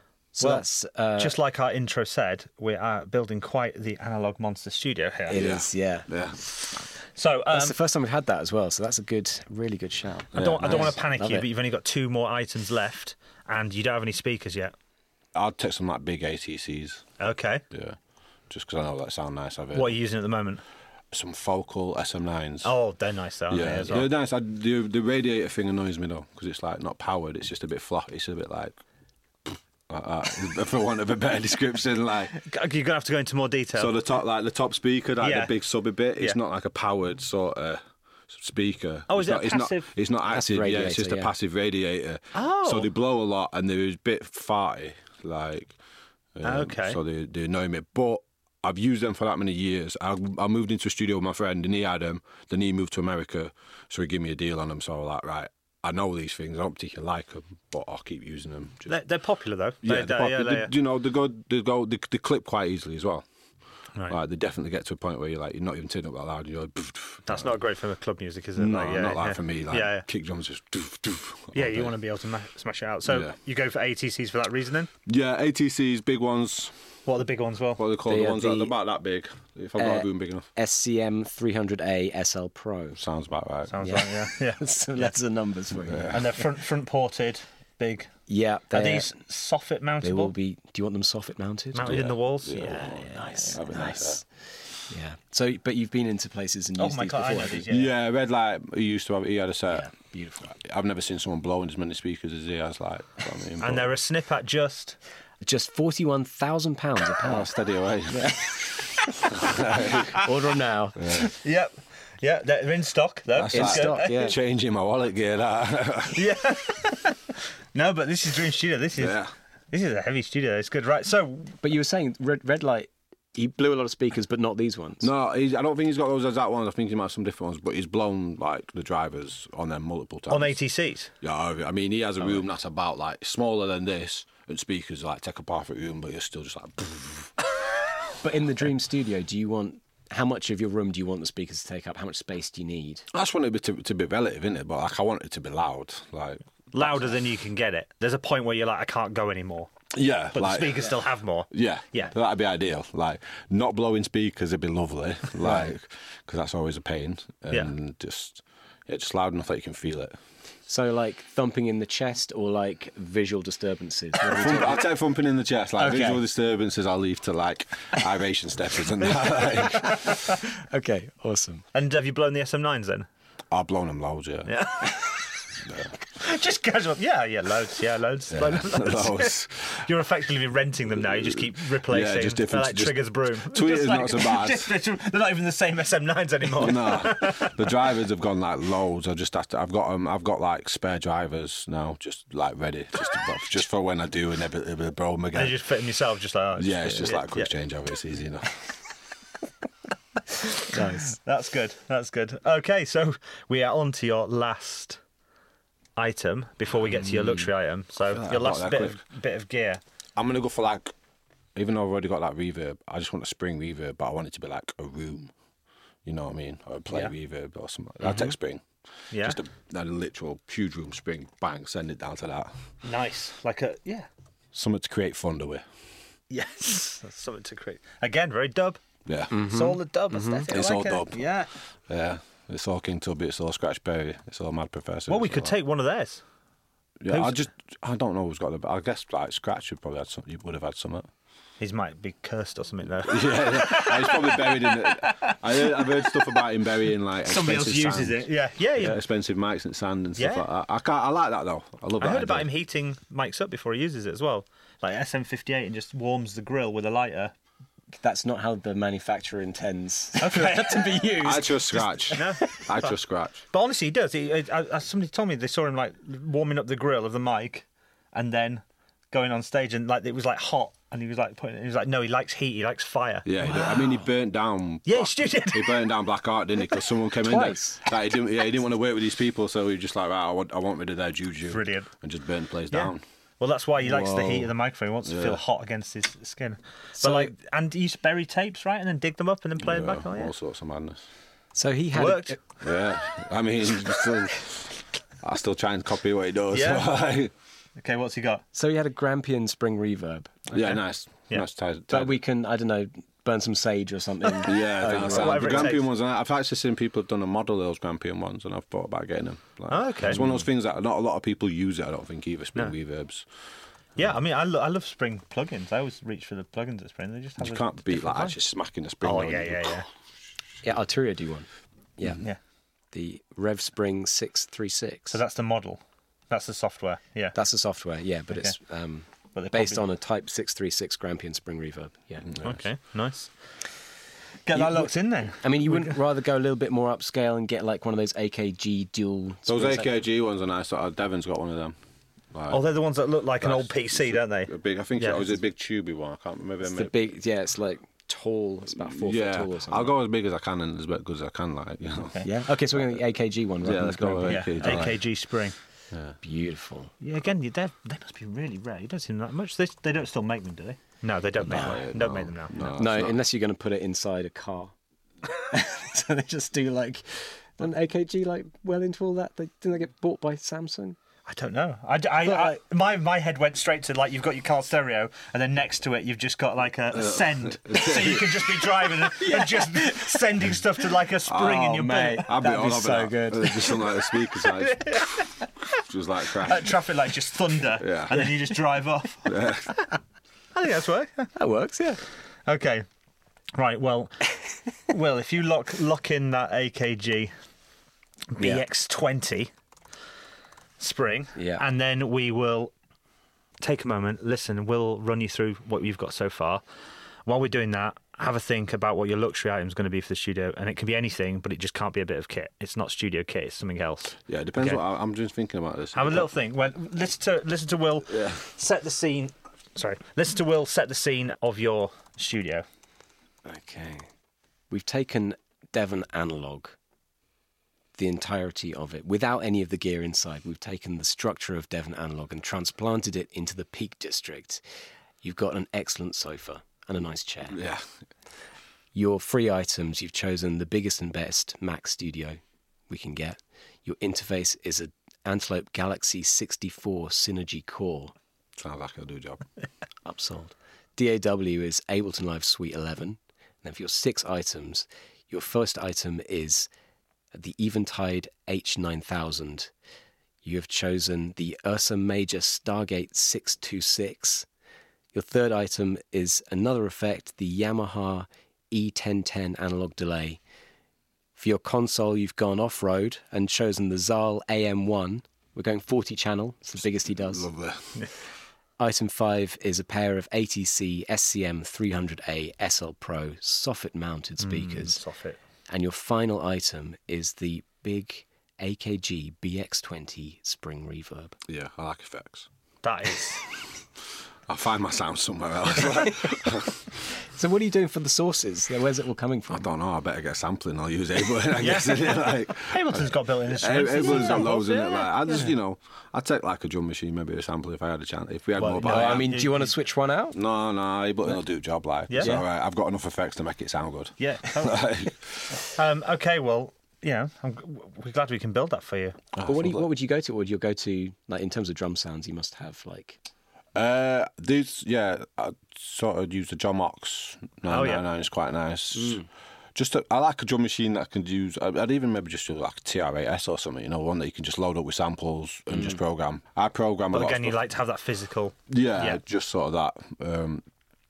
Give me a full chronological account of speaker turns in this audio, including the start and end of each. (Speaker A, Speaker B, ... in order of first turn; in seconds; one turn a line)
Speaker A: 0.3-1.4
Speaker B: 0.4-0.7
Speaker B: 1.2-5.4
Speaker A: 5.3-6.1
Speaker C: 5.3-6.9
Speaker B: 6.5-7.8
Speaker A: 7.5-11.5
Speaker C: 10.3-11.0
Speaker B: 10.3-14.7
Speaker C: 15.3-17.1
Speaker B: 17.2-17.6
Speaker C: 17.7-18.0
Speaker C: 18.5-20.0
Speaker B: 19.7-20.6
Speaker C: 21.1-22.7
Speaker B: 22.6-24.1
Speaker C: 23.5-28.8
Speaker C: 29.5-32.3
Speaker B: 32.3-33.9
Speaker C: 33.8-45.8
Speaker B: 35.2-35.5
Speaker B: 39.1-39.9
Speaker A: 40.3-41.3
Speaker B: 42.3-42.9
Speaker C: 46.4-59.0
Speaker B: 46.4-47.0
Speaker B: 58.9-60.7
Speaker C: 59.8-63.2
Speaker C: 64.1-67.6
Speaker B: 67.3-70.0
Speaker C: 68.6-71.9
Speaker B: 71.5-74.9
Speaker C: 73.0-73.3
Speaker C: 75.1-76.8
Speaker B: 77.1-77.8
Speaker C: 77.8-80.5
Speaker A: 78.1-78.8
Speaker A: 79.8-83.0
Speaker C: 83.0-83.8
Speaker B: 83.7-85.1
Speaker A: 83.8-86.4
Speaker C: 85.9-86.2
Speaker B: 86.1-88.1
Speaker A: 88.3-89.1
Speaker B: 88.7-90.3
Speaker A: 90.0-92.0
Speaker B: 91.7-93.6
Speaker C: 91.8-94.2
Speaker A: 93.1-97.7
Speaker B: 96.8-97.9
Speaker C: 97.7-99.9
Speaker A: 99.7-100.5
Speaker C: 100.5-103.9
Speaker B: 103.6-105.0
Speaker A: 105.4-107.5
Speaker C: 107.2-108.6
Speaker A: 108.1-111.2
Speaker C: 109.3-110.3
Speaker C: 111.0-111.3
Speaker B: 111.1-114.3
Speaker C: 113.3-116.3
Speaker A: 113.5-114.4
Speaker B: 116.1-121.6
Speaker C: 119.0-119.3
Speaker A: 121.6-125.1
Speaker C: 125.0-130.6
Speaker B: 130.3-131.1
Speaker C: 131.2-137.3
Speaker A: 138.2-143.1
Speaker C: 143.1-147.1
Speaker B: 146.7-149.7
Speaker C: 149.9-150.9
Speaker B: 150.3-152.1
Speaker C: 151.5-160.2
Speaker A: 155.4-155.7
Speaker A: 160.7-164.9
Speaker C: 164.3-170.1
Speaker A: 165.8-166.2
Speaker A: 169.4-171.6
Speaker B: 169.4-170.4
Speaker B: 171.7-173.1
Speaker C: 173.5-174.5
Speaker B: 174.5-175.4
Speaker C: 175.6-175.9
Speaker B: 176.1-187.7
Speaker C: 178.3-179.9
Speaker C: 180.9-184.7
Speaker C: 186.6-195.6
Speaker B: 195.3-197.5
Speaker C: 196.6-198.5
Speaker B: 200.3-205.0
Speaker A: 200.7-201.2
Speaker B: 206.0-209.8
Speaker C: 208.0-209.0
Speaker C: 210.2-210.9
Speaker C: 211.6-215.3
Speaker C: 216.1-222.5
Speaker B: 219.1-219.4
Speaker B: 222.8-224.1
Speaker C: 224.5-225.7
Speaker B: 226.3-228.8
Speaker C: 229.1-229.3
Speaker A: 229.3-230.4
Speaker B: 229.4-231.5
Speaker C: 230.5-231.3
Speaker C: 231.9-235.6
Speaker B: 235.1-236.2
Speaker C: 237.0-241.1
Speaker B: 237.1-237.4
Speaker B: 241.6-246.4
Speaker C: 243.1-252.5
Speaker B: 247.3-249.0
Speaker B: 250.2-250.5
Speaker B: 252.0-257.3
Speaker A: 258.0-262.7
Speaker B: 260.2-261.1
Speaker C: 261.2-263.4
Speaker B: 262.1-263.0
Speaker B: 263.5-274.0
Speaker C: 273.2-283.0
Speaker B: 274.9-275.9
Speaker A: 277.2-277.8
Speaker B: 281.5-281.9
Speaker B: 282.7-290.3
Speaker C: 283.8-284.5
Speaker C: 285.1-285.4
Speaker A: 287.0-287.3
Speaker C: 289.6-291.1
Speaker A: 291.5-292.4
Speaker B: 291.9-292.4
Speaker C: 292.6-297.3
Speaker B: 296.5-296.9
Speaker B: 297.8-298.4
Speaker A: 298.5-300.6
Speaker C: 300.5-302.2
Speaker A: 301.9-305.8
Speaker B: 304.3-305.9
Speaker C: 304.4-313.3
Speaker B: 309.7-310.2
Speaker B: 314.0-318.4
Speaker C: 317.4-319.8
Speaker B: 319.0-319.9
Speaker A: 320.6-322.2
Speaker A: 322.9-325.2
Speaker B: 325.1-327.4
Speaker A: 327.3-332.3
Speaker B: 329.3-329.8
Speaker C: 332.3-332.6
Speaker B: 332.4-333.3
Speaker B: 334.5-336.0
Speaker A: 334.5-339.9
Speaker C: 339.5-341.8
Speaker C: 342.3-342.6
Speaker B: 342.5-345.3
Speaker C: 343.4-347.0
Speaker A: 346.7-349.9
Speaker C: 348.8-352.2
Speaker A: 352.2-355.0
Speaker C: 352.7-353.0
Speaker C: 353.6-355.0
Speaker B: 354.3-355.6
Speaker C: 355.9-356.2
Speaker A: 356.2-356.9
Speaker B: 357.0-362.7
Speaker C: 361.4-363.2
Speaker A: 362.6-364.7
Speaker A: 365.3-371.0
Speaker B: 371.3-382.4
Speaker A: 372.2-372.6
Speaker C: 376.9-378.3
Speaker A: 379.1-380.2
Speaker C: 381.3-386.8
Speaker A: 381.4-384.1
Speaker B: 384.6-385.5
Speaker B: 386.4-389.9
Speaker C: 387.7-388.4
Speaker C: 389.2-389.7
Speaker B: 390.5-391.3
Speaker A: 391.4-392.0
Speaker B: 392.5-392.9
Speaker B: 393.6-394.2
Speaker B: 394.9-397.3
Speaker B: 398.3-399.5
Speaker A: 398.4-398.6
Speaker B: 400.8-402.7
Speaker A: 401.4-401.6
Speaker B: 403.6-406.6
Speaker B: 407.3-414.8
Speaker C: 414.3-416.3
Speaker B: 415.9-422.6
Speaker C: 418.1-418.4
Speaker A: 423.4-424.1
Speaker A: 424.7-426.8
Speaker A: 428.0-434.6
Speaker A: 435.2-437.6
Speaker C: 437.5-437.9
Speaker A: 438.9-448.1
Speaker C: 448.6-449.4
Speaker A: 450.1-456.7
Speaker A: 457.3-459.7
Speaker A: 460.4-464.5
Speaker A: 465.1-470.4
Speaker A: 471.4-477.5
Speaker C: 476.8-478.1
Speaker A: 478.8-485.0
Speaker B: 484.4-485.4
Speaker A: 485.7-491.4
Speaker C: 491.5-492.5
Speaker B: 492.8-493.4
Speaker C: 494.5-497.0
Speaker A: 495.8-496.4
Speaker A: 497.2-499.7
Speaker C: 499.5-509.4
Speaker B: 501.6-505.5
Speaker B: 508.6-509.7
Speaker A: 508.8-510.4
Speaker C: 510.3-515.7
Speaker B: 512.1-512.4
Speaker B: 514.2-514.8
Speaker B: 515.7-519.2
Speaker C: 519.3-519.9
Speaker A: 519.4-523.2
Speaker C: 523.8-537.6
Speaker B: 527.7-528.0
Speaker B: 537.1-539.2
Speaker C: 538.7-540.6